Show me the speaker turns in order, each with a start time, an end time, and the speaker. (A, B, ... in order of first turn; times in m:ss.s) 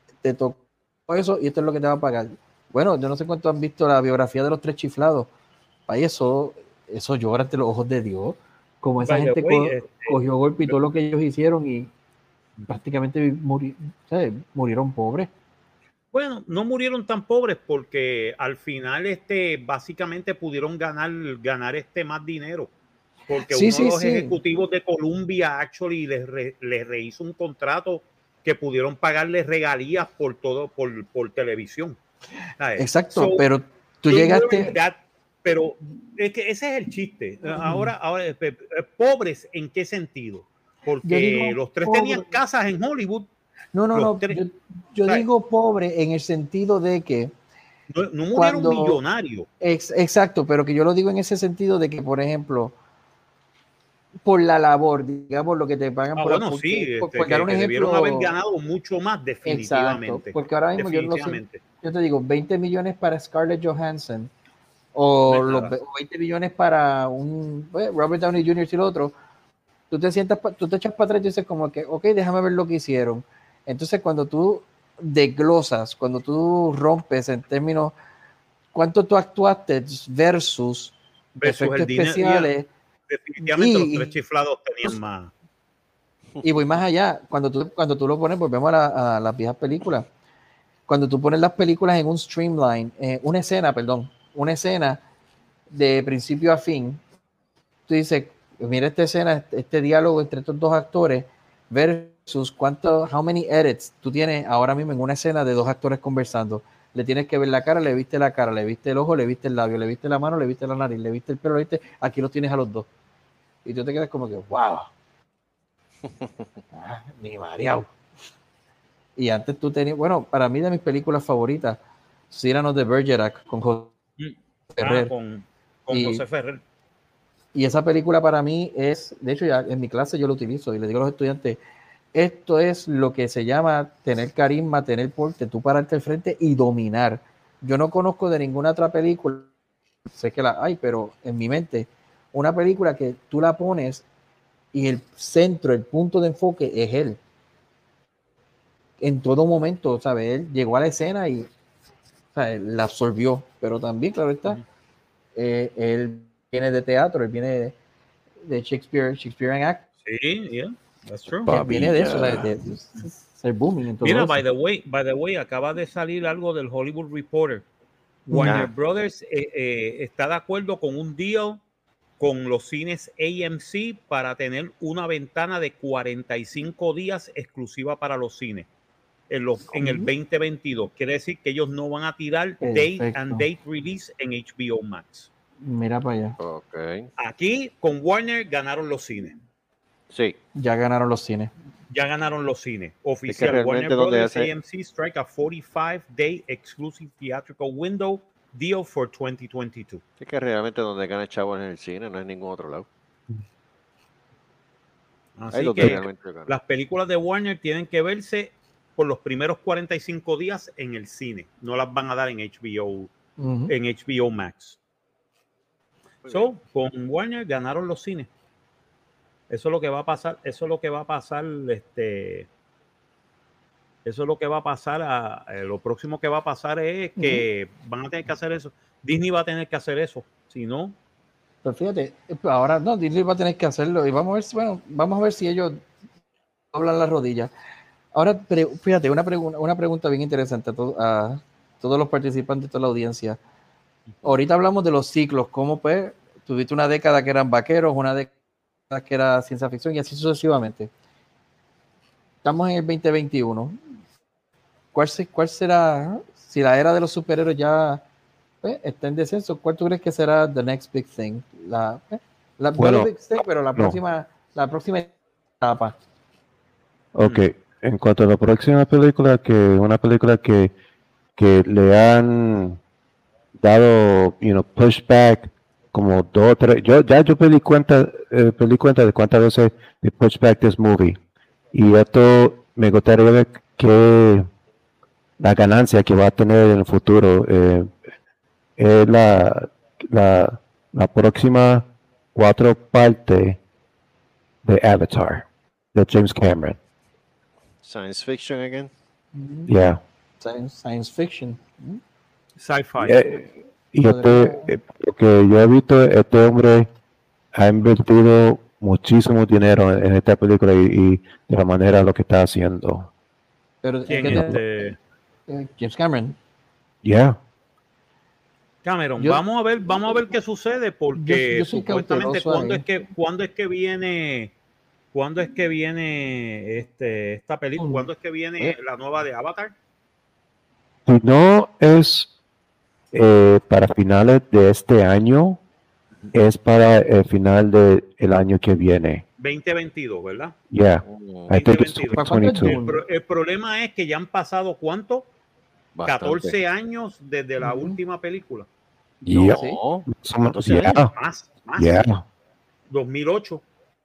0:00.2-0:05.3 A
0:05.9-0:11.9 A
0:09.0-0:10.2 B
0:12.7-0:15.3 A
0:16.1-0:22.7 B
0:23.3-0:32.0 B
0:23.5-0:24.4 A
0:32.6-0:33.4 B
0:32.8-0:34.7 A
0:34.1-0:43.3 B
0:37.5-0:37.9 A
0:41.0-0:42.4 A
0:43.7-0:47.3 A
0:43.9-0:44.4 B
0:47.9-0:49.5 B
0:48.4-0:49.0 A
0:49.6-0:52.8 A
0:54.2-0:58.3 A
0:56.2-1:01.6 B
0:59.4-1:04.3 A
1:05.0-1:09.2 A
1:05.3-1:05.7 B
1:09.9-1:17.9 A
1:18.7-1:22.7 A
1:21.4-1:22.5 B
1:23.1-1:25.3 B
1:23.4-1:24.1 A
1:26.4-1:30.1 A
1:30.9-1:35.0 A
1:35.7-1:37.0 A
1:37.9-1:52.9 A
1:53.6-1:54.9 A
1:56.1-1:56.5 C
1:56.7-1:57.9 A
1:59.2-2:01.8 A
2:02.3-2:03.9 A
2:04.2-2:06.6 B
2:04.8-2:05.1 A
2:05.9-2:06.2 A
2:07.5-2:11.6 A
2:12.1-2:19.5 A
2:20.1-2:24.0 A
2:24.7-2:27.2 A
2:29.0-2:31.5 A
2:32.4-2:34.6 A
2:35.4-2:37.8 A
2:38.4-2:39.8 A
2:40.1-2:41.5 B
2:41.5-2:42.5 C
2:41.5-2:44.4 A
2:44.0-2:47.7 B
2:48.3-2:51.6 B
2:48.3-2:48.6 A
2:48.4-2:48.7 C
2:52.2-2:58.7 B
2:59.3-3:05.3 B
2:59.8-3:00.1 A
3:02.6-3:03.5 A
3:05.6-3:06.4 A
3:06.4-3:07.1 C
3:07.2-3:09.4 B
3:10.1-3:10.4 C
3:10.6-3:11.5 A
3:11.9-3:20.0 B
3:13.3-3:14.5 C
3:20.2-3:22.9 C
3:25.4-3:33.1 B
3:25.5-3:26.5 C
3:33.4-3:33.7 A
3:33.7-3:34.8 B
3:36.2-3:36.5 C
3:36.3-3:38.3 B
3:39.5-3:42.5 B
3:44.0-3:51.0 B
3:47.2-3:47.5 A
3:51.6-3:55.8 A
3:56.7-3:57.5 A
3:58.1-4:03.4 A
4:04.2-4:08.3 A
4:08.9-4:10.9 A
4:12.4-4:13.8 A
4:14.9-4:18.0 A
4:18.6-4:26.0 A
4:22.8-4:23.1 D
4:27.1-4:30.7 D
4:31.4-4:32.8 D
4:33.6-4:41.2 D
4:41.7-4:44.5 D
4:45.4-4:47.9 D
4:48.8-4:53.6 D
4:54.6-4:56.8 D
4:57.8-4:58.9 C
4:59.3-4:59.7 A
4:59.7-5:00.0 D
5:00.4-5:02.0 A
5:02.6-5:03.2 B
5:03.0-5:06.9 D
5:04.0-5:04.7 A
5:07.6-5:13.1 D
5:13.8-5:14.6 A
5:14.1-5:15.0 B
5:14.2-5:14.5 D
5:15.5-5:16.4 A
5:17.0-5:17.4 D
5:18.8-5:24.5 B
5:21.2-5:22.9 A
5:25.1-5:29.7 B
5:27.8-5:28.1 A
5:31.1-5:32.3 D
5:33.1-5:35.6 D
5:36.3-5:39.2 D
5:39.4-5:40.5 B
5:40.7-5:42.8 D
5:41.0-5:41.5 C
5:41.5-5:45.3 B
5:42.2-5:43.0 A
5:46.0-5:46.6 C
5:46.0-5:48.7 B
5:47.6-5:48.0 A
5:49.3-5:51.1 D
5:49.3-5:51.0 C
5:49.6-5:49.8 A
5:51.2-5:52.1 B
5:51.8-5:52.2 D
5:52.9-5:53.6 B